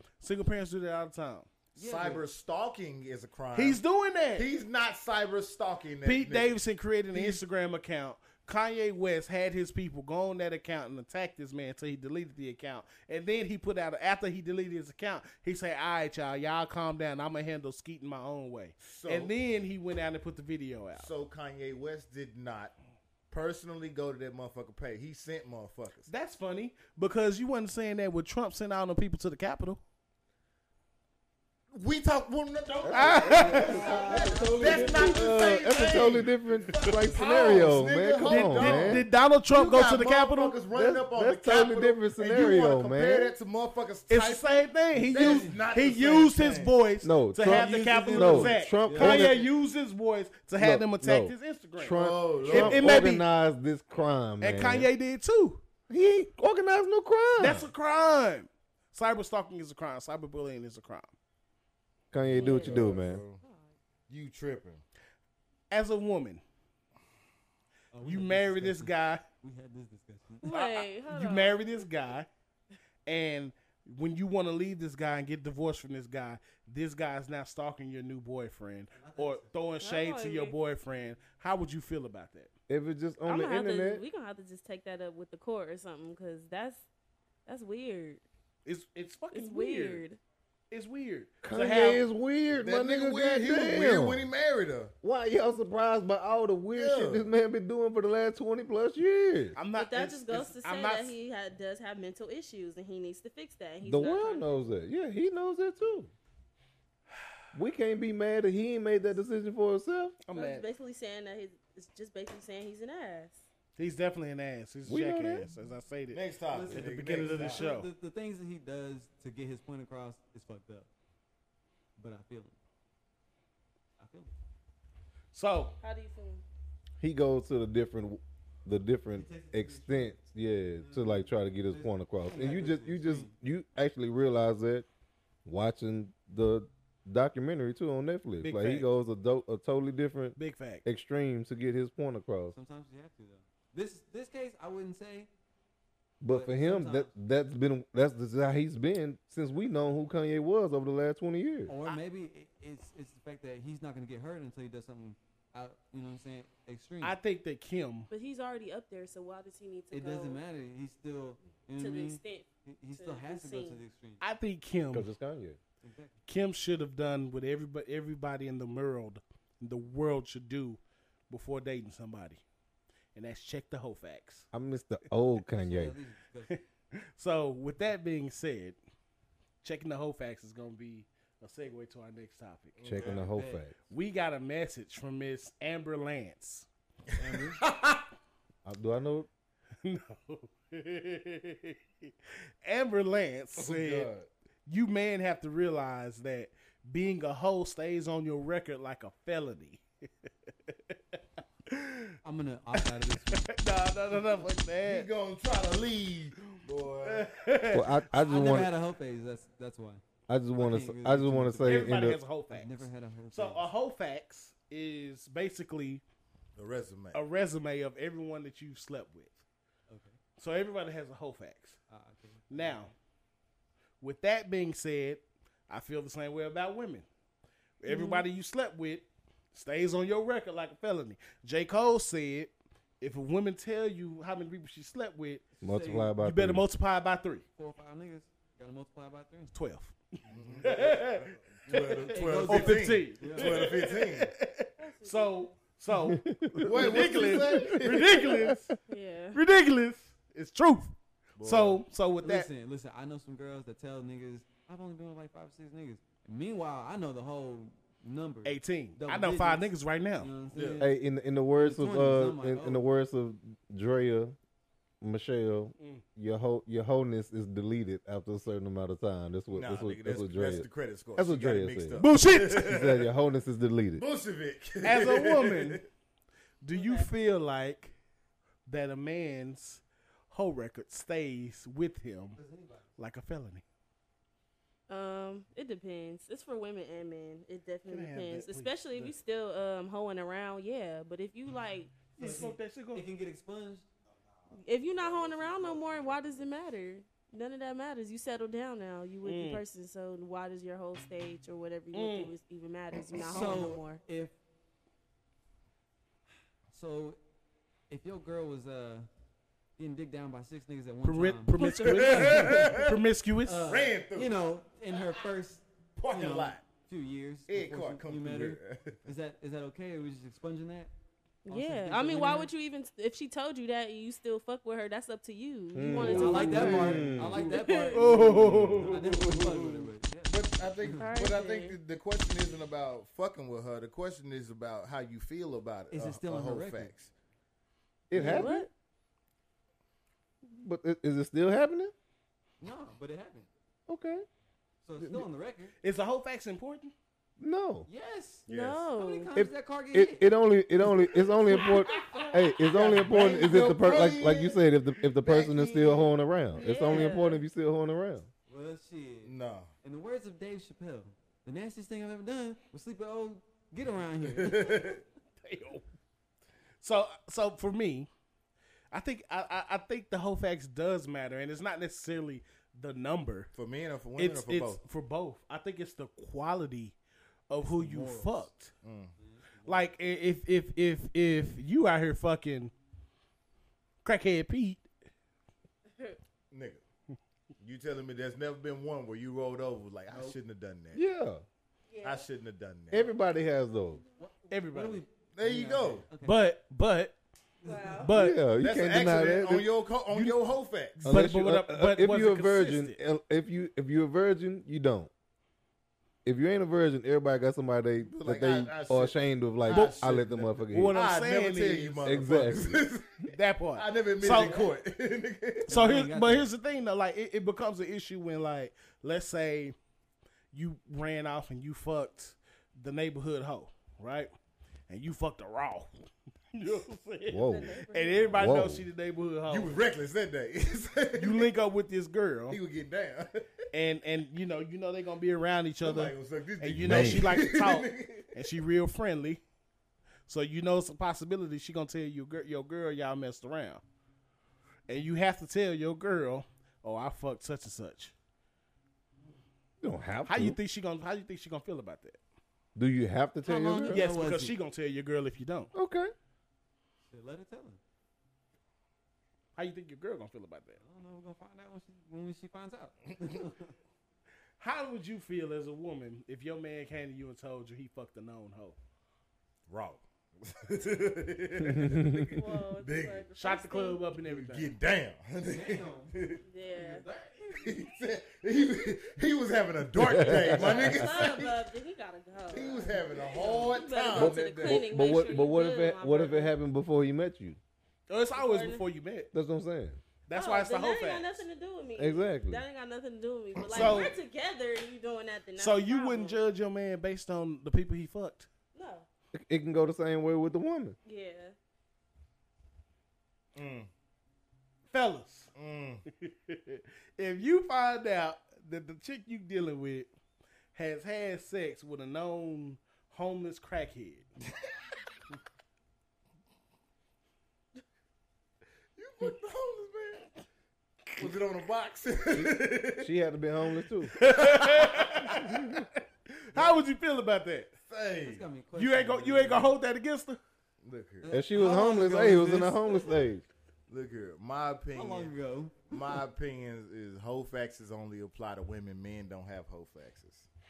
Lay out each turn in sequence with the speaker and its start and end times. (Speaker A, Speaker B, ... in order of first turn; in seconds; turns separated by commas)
Speaker A: 0.2-1.5, Speaker B: 1.8-2.2, Speaker C: 1.8-3.8, Speaker A: 3.5-4.5, Speaker C: 4.3-6.5, Speaker A: 6.0-21.1, Speaker C: 7.1-7.4, Speaker C: 18.8-19.3, Speaker C: 21.0-22.8, Speaker C: 23.3-26.1, Speaker A: 26.1-29.8, Speaker C: 31.7-46.7, Speaker D: 32.8-39.1, Speaker A: 32.9-33.9, Speaker B: 33.4-35.5, Speaker A: 36.7-37.4, Speaker A: 38.2-40.6, Speaker D: 40.7-43.4, Speaker A: 44.1-53.2, Speaker B: 45.1-45.6, Speaker D: 47.0-49.5, Speaker B: 47.4-49.4, Speaker D: 50.6-54.9, Speaker C: 51.9-53.1, Speaker A: 54.4-55.6, Speaker D: 55.9-57.7, Speaker A: 57.4-61.1, Speaker D: 62.1-63.2, Speaker E: 62.3-62.9, Speaker C: 62.4-63.4, Speaker C: 64.1-64.8, Speaker A: 65.7-66.4, Speaker B: 67.9-70.5, Speaker A: 68.0-69.2, Speaker E: 70.4-71.8, Speaker A: 70.5-72.3, Speaker A: 73.1-82.5, Speaker B: 79.0-79.5, Speaker E: 79.8-80.5, Speaker D: 82.7-84.0, Speaker E: 83.3-86.9, Speaker E: 87.5-88.2, Speaker A: 88.7-90.0, Speaker E: 89.3-90.2, Speaker A: 90.7-92.0, Speaker D: 91.4-94.3, Speaker C: 92.6-94.9, Speaker D: 95.0-99.6, Speaker C: 96.7-97.3, Speaker A: 99.6-101.2, Speaker E: 99.7-104.6, Speaker D: 103.8-106.1, Speaker D: 107.5-110.2, Speaker A: 110.2-110.7, Speaker E: 110.3-113.4, Speaker A: 113.8-117.9, Speaker D: 114.9-115.5, Speaker C: 116.1-117.7, Speaker B: 116.5-120.9, Speaker B: 122.0-122.6, Speaker B: 124.0-124.3, Speaker A: 125.3-125.8, Speaker E: 125.8-126.4, Speaker D: 127.0-134.9, Speaker B: 129.1-130.2, Speaker B: 130.8-133.3, Speaker D: 135.4-142.6, Speaker A: 138.4-138.9, Speaker A: 140.4-140.8, Speaker B: 142.5-145.3, Speaker D: 146.2-151.7, Speaker B: 146.3-147.1, Speaker B: 151.7-157.2, Speaker A: 157.0-158.1, Speaker E: 158.1-160.4, Speaker B: 159.9-164.2, Speaker E: 161.8-163.8, Speaker A: 164.2-165.1, Speaker D: 164.9-165.6, Speaker B: 165.8-166.2, Speaker A: 166.3-172.4, Speaker A: 173.2-174.5, Speaker D: 174.5-176.0, Speaker B: 175.6-176.6, Speaker A: 176.5-178.8, Speaker A: 179.6-183.2, Speaker C: 182.8-183.3, Speaker D: 182.8-183.8, Speaker B: 183.1-183.7, Speaker A: 183.9-186.7, Speaker B: 187.2-187.6, Speaker C: 187.2-188.1, Speaker D: 188.7-189.3, Speaker A: 189.8-192.1, Speaker A: 192.6-194.1, Speaker C: 193.6-194.3, Speaker A: 194.7-199.8, Speaker A: 200.7-202.2, Speaker B: 202.2-203.5, Speaker A: 202.8-205.1, Speaker C: 204.8-207.3, Speaker A: 207.0-208.6, Speaker D: 207.7-208.7, Speaker B: 208.1-210.0, Speaker D: 210.3-212.2, Speaker B: 210.6-213.7, Speaker A: 211.7-216.0, Speaker C: 216.6-217.2, Speaker A: 217.1-219.4, Speaker B: 219.9-220.2, Speaker A: 220.4-221.8, Speaker B: 221.9-222.9, Speaker A: 222.5-222.9, Speaker A: 224.0-227.1, Speaker A: 227.8-235.5, Speaker E: 227.9-228.3, Speaker B: 235.6-236.2, Speaker D: 235.6-236.6, Speaker A: 236.1-237.4, Speaker B: 237.6-239.5, Speaker A: 239.5-240.0, Speaker C: 240.3-244.3, Speaker B: 240.3-240.6, Speaker A: 240.5-248.8, Speaker B: 241.7-243.7, Speaker E: 244.8-245.6, Speaker D: 246.1-248.7, Speaker C: 246.6-248.5, Speaker E: 248.9-249.4, Speaker A: 249.3-252.5, Speaker C: 251.4-251.8, Speaker B: 252.2-260.9, Speaker A: 258.4-260.3, Speaker C: 260.5-260.8, Speaker D: 260.8-264.4, Speaker B: 261.6-262.8, Speaker D: 265.0-272.0, Speaker A: 265.8-266.0, Speaker C: 269.5-273.1, Speaker A: 272.0-272.9, Speaker D: 272.6-274.0, Speaker C: 273.9-275.9, Speaker A: 274.8-275.8, Speaker A: 276.6-277.9, Speaker E: 276.7-277.1, Speaker A: 278.7-282.4, Speaker B: 282.4-282.9, Speaker A: 283.0-283.6, Speaker E: 284.9-292.1, Speaker A: 287.9-289.1, Speaker A: 292.1-293.1, Speaker B: 292.2-293.9, Speaker E: 294.5-304.0, Speaker B: 295.2-296.0, Speaker A: 299.2-299.6, Speaker A: 301.9-302.3, Speaker C: 303.0-303.7, Speaker B: 303.2-304.4, Speaker B: 306.7-307.2, Speaker B: 307.9-309.1, Speaker B: 309.8-312.8, Speaker A: 311.0-313.7, Speaker E: 311.6-312.5, Speaker C: 311.9-313.0, Speaker B: 313.4-320.9, Speaker C: 313.7-314.4, Speaker C: 316.0-316.6, Speaker C: 317.5-319.1, Speaker E: 321.4-328.2, Speaker B: 321.5-322.5, Speaker D: 325.7-327.4, Speaker B: 326.0-331.2, Speaker A: 326.4-327.0, Speaker A: 327.9-329.0, Speaker C: 328.1-337.1, Speaker E: 331.0-331.8, Speaker B: 335.9-336.9, Speaker D: 338.1-338.7, Speaker E: 338.1-338.7, Speaker B: 338.2-338.5, Speaker D: 340.4-341.9, Speaker B: 342.6-343.5, Speaker D: 343.9-344.3, Speaker B: 344.8-345.7, Speaker D: 345.0-345.3, Speaker A: 345.8-346.9, Speaker D: 347.4-347.9, Speaker B: 347.9-350.3, Speaker C: 348.5-348.9, Speaker E: 348.5-349.3, Speaker D: 349.4-358.3, Speaker B: 351.6-353.0, Speaker C: 352.7-356.1, Speaker E: 356.6-357.4, Speaker B: 358.5-365.0, Speaker C: 359.2-359.7, Speaker C: 364.3-365.0, Speaker A: 365.4-365.8, Speaker A: 366.8-368.1, Speaker A: 368.9-373.5, Speaker C: 373.5-374.8, Speaker A: 374.2-377.0, Speaker A: 377.5-378.7, Speaker B: 377.6-378.5, Speaker C: 378.8-379.1, Speaker B: 379.2-379.9, Speaker A: 379.7-382.7, Speaker A: 384.1-384.9, Speaker C: 386.5-386.8, Speaker C: 387.6-391.0, Speaker B: 390.1-390.4, Speaker D: 390.9-391.4, Speaker E: 391.9-392.3, Speaker C: 392.0-393.1, Speaker D: 392.9-394.0, Speaker B: 394.2-396.4, Speaker A: 394.5-395.0, Speaker C: 395.4-396.1, Speaker A: 396.2-397.2, Speaker B: 397.6-398.1, Speaker E: 397.6-398.1, Speaker A: 398.0-398.4, Speaker D: 398.1-399.7, Speaker C: 398.6-401.3, Speaker A: 400.1-400.4, Speaker A: 401.0-403.0, Speaker D: 401.0-405.1, Speaker D: 406.2-411.0, Speaker C: 408.1-415.7, Speaker A: 409.7-412.4, Speaker D: 412.0-412.9, Speaker A: 413.3-414.6, Speaker B: 414.3-414.7, Speaker B: 415.7-416.5, Speaker A: 415.7-419.8, Speaker A: 420.5-424.3, Speaker A: 424.9-429.8, Speaker D: 427.3-427.8, Speaker E: 427.5-428.5, Speaker D: 428.3-428.9, Speaker C: 429.5-431.5, Speaker A: 431.1-432.6, Speaker C: 432.5-433.5, Speaker A: 433.7-439.4, Speaker C: 435.8-438.5, Speaker D: 436.8-437.4, Speaker A: 440.3-443.8, Speaker A: 444.9-448.1, Speaker D: 449.8-450.6, Speaker A: 450.3-452.2, Speaker D: 452.8-454.0, Speaker B: 453.4-454.6, Speaker A: 453.9-455.7, Speaker D: 455.7-456.1, Speaker B: 457.1-457.8, Speaker A: 459.6-460.8, Speaker B: 460.8-463.7, Speaker A: 464.6-468.8, Speaker C: 469.7-473.3, Speaker D: 471.8-472.2, Speaker E: 472.3-474.0, Speaker A: 473.4-474.7, Speaker C: 474.2-476.4, Speaker B: 475.5-476.1, Speaker E: 476.5-477.1, Speaker B: 476.8-477.8, Speaker C: 477.6-481.6, Speaker D: 479.9-480.9, Speaker E: 480.4-486.5, Speaker C: 482.5-484.9, Speaker B: 483.0-483.8, Speaker D: 484.1-487.6, Speaker A: 488.1-489.3, Speaker E: 488.3-488.9, Speaker D: 489.3-490.0, Speaker A: 490.3-491.4, Speaker E: 490.3-496.4, Speaker D: 492.0-492.6, Speaker C: 493.6-494.1, Speaker A: 493.7-494.1, Speaker A: 495.6-498.5, Speaker E: 498.7-499.1, Speaker D: 499.3-501.0, Speaker E: 501.1-501.6, Speaker C: 503.6-503.9, Speaker A: 504.9-505.5, Speaker C: 505.6-506.0, Speaker A: 506.2-510.1, Speaker A: 510.8-514.3, Speaker C: 519.0-520.3, Speaker C: 521.2-523.1, Speaker D: 522.3-524.2, Speaker A: 524.1-527.7, Speaker C: 524.2-525.5, Speaker D: 525.3-525.9, Speaker C: 527.9-528.5, Speaker B: 528.2-529.7, Speaker A: 528.7-530.4, Speaker C: 530.8-531.3, Speaker B: 531.2-533.2, Speaker D: 531.3-533.5, Speaker C: 533.9-535.3, Speaker B: 534.9-536.0, Speaker C: 535.9-540.5